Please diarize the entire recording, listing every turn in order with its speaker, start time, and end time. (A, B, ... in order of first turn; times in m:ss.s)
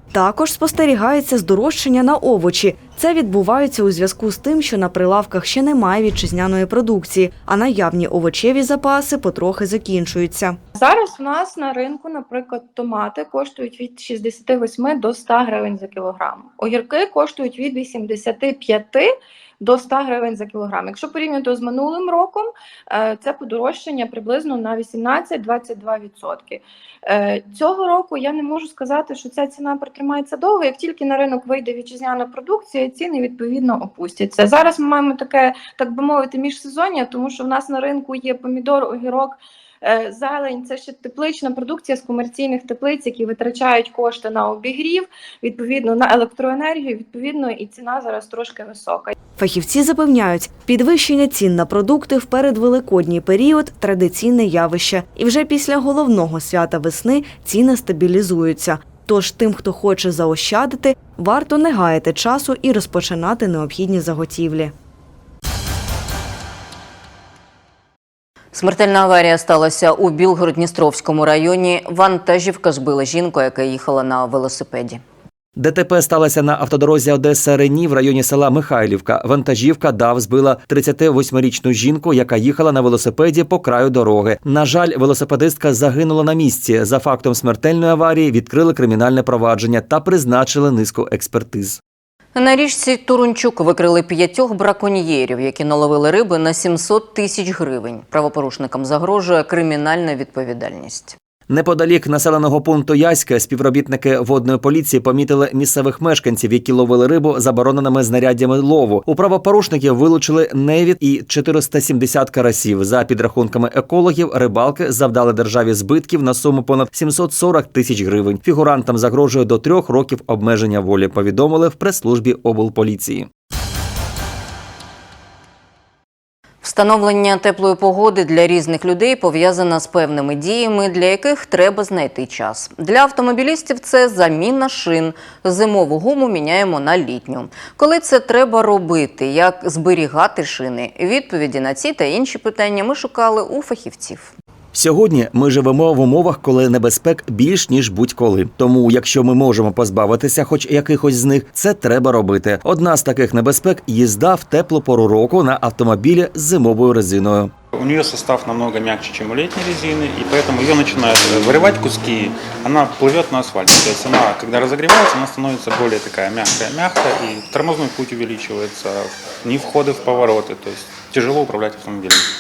0:00.1-0:10.6 A
0:10.8-0:49.1 B
0:49.4-1:04.7 A
1:08.5-1:15.0 C
1:15.6-1:31.8 D
1:32.4-1:41.2 C
1:41.5-2:03.3 D
2:06.6-2:24.3 C
2:24.7-2:37.5 D
2:37.7-2:52.3 E